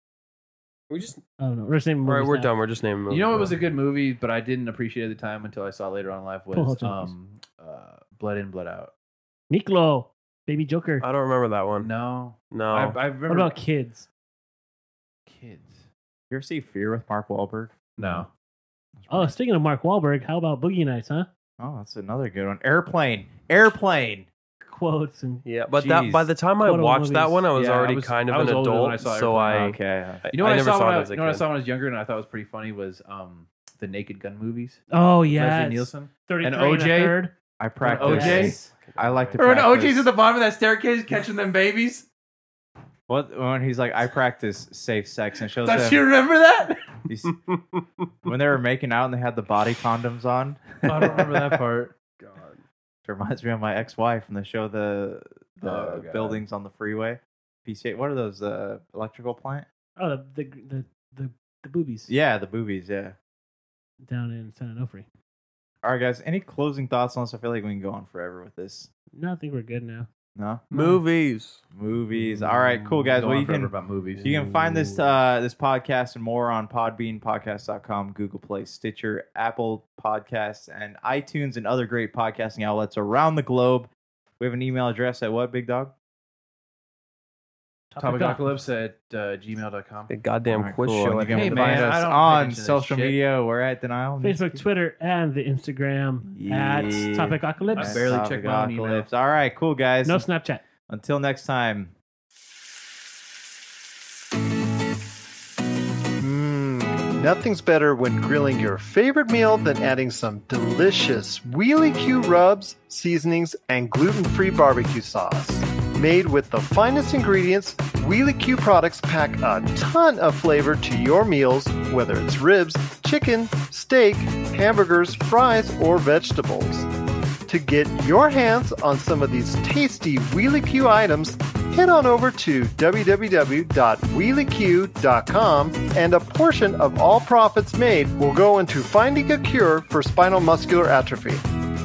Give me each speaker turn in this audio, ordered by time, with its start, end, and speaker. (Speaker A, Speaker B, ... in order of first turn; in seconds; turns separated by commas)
Speaker A: 0.9-1.2, Speaker B: 1.4-2.5, Speaker A: 2.1-3.6, Speaker C: 3.1-8.9, Speaker B: 6.5-7.1, Speaker B: 9.5-11.1, Speaker A: 11.0-11.9, Speaker C: 11.8-13.6, Speaker A: 12.5-13.0, Speaker B: 13.3-14.1, Speaker C: 15.3-15.8, Speaker D: 16.3-18.3, Speaker C: 18.0-18.3, Speaker D: 19.0-19.4, Speaker B: 19.1-21.3, Speaker D: 21.6-24.3, Speaker B: 24.7-25.5, Speaker A: 25.4-31.4, Speaker D: 25.7-26.3, Speaker B: 26.6-27.4, Speaker C: 27.5-29.8, Speaker D: 29.5-30.3, Speaker C: 30.3-34.8, Speaker B: 34.9-37.3, Speaker C: 35.4-37.2, Speaker D: 37.6-40.1, Speaker C: 37.8-38.6, Speaker B: 37.9-38.7, Speaker A: 38.1-39.4, Speaker C: 39.4-42.1, Speaker D: 43.1-46.1, Speaker C: 45.6-47.0, Speaker D: 47.1-47.5, Speaker D: 48.2-51.6, Speaker C: 50.8-52.0, Speaker A: 52.2-52.6, Speaker D: 53.0-59.7, Speaker C: 55.6-56.4, Speaker B: 60.0-62.1, Speaker D: 62.1-63.2, Speaker B: 64.0-65.1, Speaker D: 65.8-68.9, Speaker B: 69.1-70.1, Speaker D: 70.4-70.6, Speaker A: 70.7-71.6, Speaker B: 70.7-71.0, Speaker D: 71.8-83.9, Speaker C: 73.1-74.4, Speaker D: 84.4-85.9, Speaker B: 87.9-88.5, Speaker C: 88.0-90.1, Speaker A: 90.1-91.9, Speaker D: 90.5-94.6, Speaker C: 91.3-93.2, Speaker B: 94.2-98.1, Speaker D: 96.3-100.3, Speaker C: 97.7-99.1, Speaker B: 100.0-100.7, Speaker D: 100.9-101.9, Speaker E: 106.2-126.9, Speaker E: 127.5-141.4